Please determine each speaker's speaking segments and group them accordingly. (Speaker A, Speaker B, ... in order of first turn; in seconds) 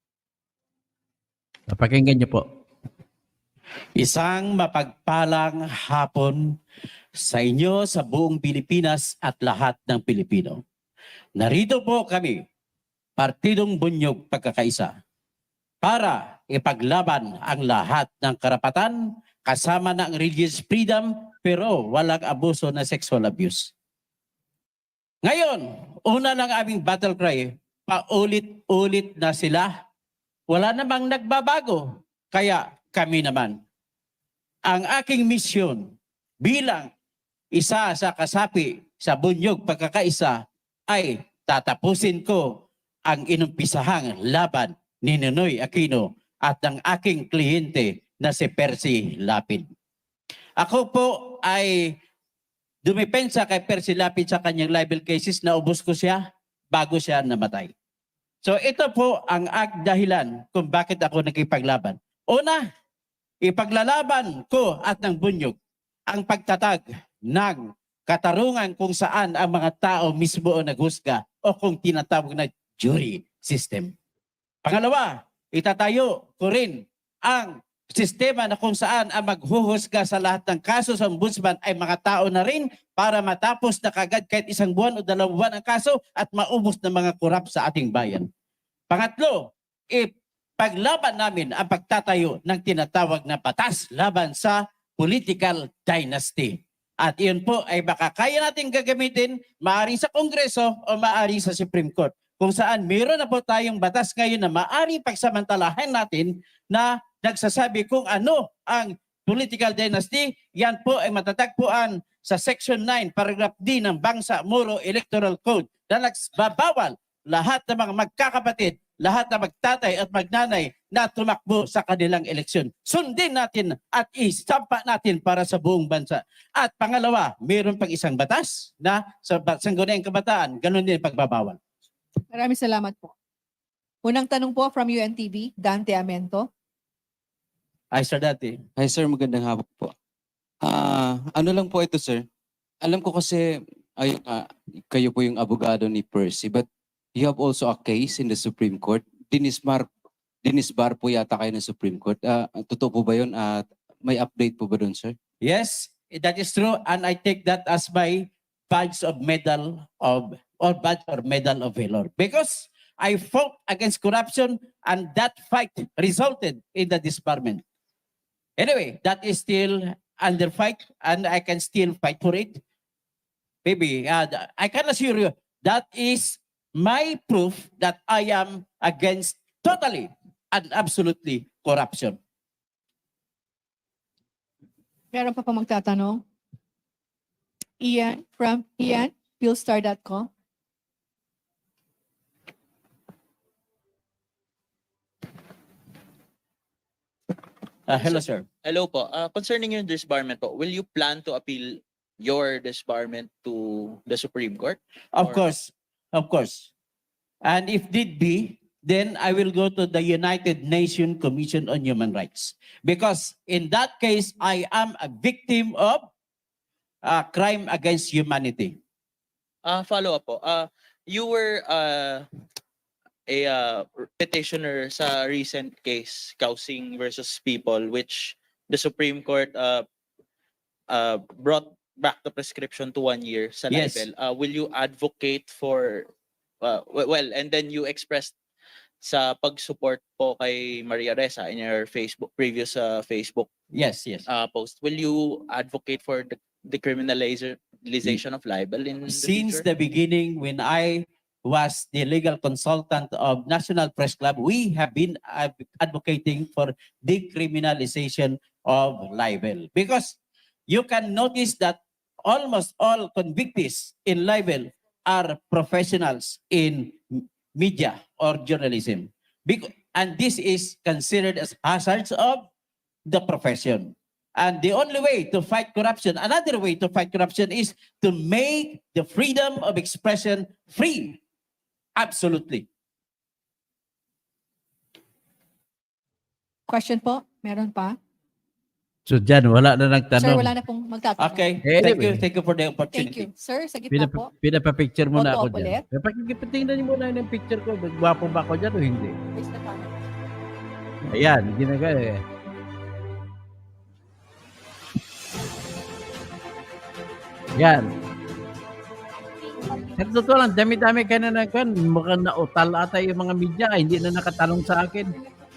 Speaker A: 1.7-2.4, 289.1-290.5, 291.6-292.2, 293.9-299.2, 301.0-302.2, 307.6-307.9, 310.0-315.1
Speaker B: 4.0-6.6, 7.2-10.6, 11.4-12.4, 13.2-14.9, 15.8-23.7, 25.2-29.7, 30.5-33.6, 34.6-35.9, 36.4-36.9, 37.5-49.6, 50.6-52.0, 52.8-57.7, 58.4-62.6, 63.4-65.5, 66.1-73.9, 74.6-88.3, 88.9-131.6, 137.9-138.6, 155.4-167.6, 168.6-172.6, 173.6-182.2, 197.9-198.4, 205.1-206.7, 207.4-216.1, 217.0-218.8, 233.7-234.0, 243.7-244.2, 249.1-260.2, 260.7-272.5, 273.1-281.2, 282.0-282.6, 291.2-293.3
Speaker C: 132.3-133.1, 134.0-136.5, 185.1-186.2, 187.8-190.3, 286.7-288.0, 290.2-291.5, 292.9-294.3, 295.1-295.8, 299.4-299.9
Speaker D: 138.8-139.9, 140.6-142.2, 142.8-149.9, 150.4-155.2
Speaker E: 197.9-205.4, 219.7-222.2, 223.3-229.8, 230.9-236.1, 236.6-238.3, 239.0-243.5, 244.3-249.6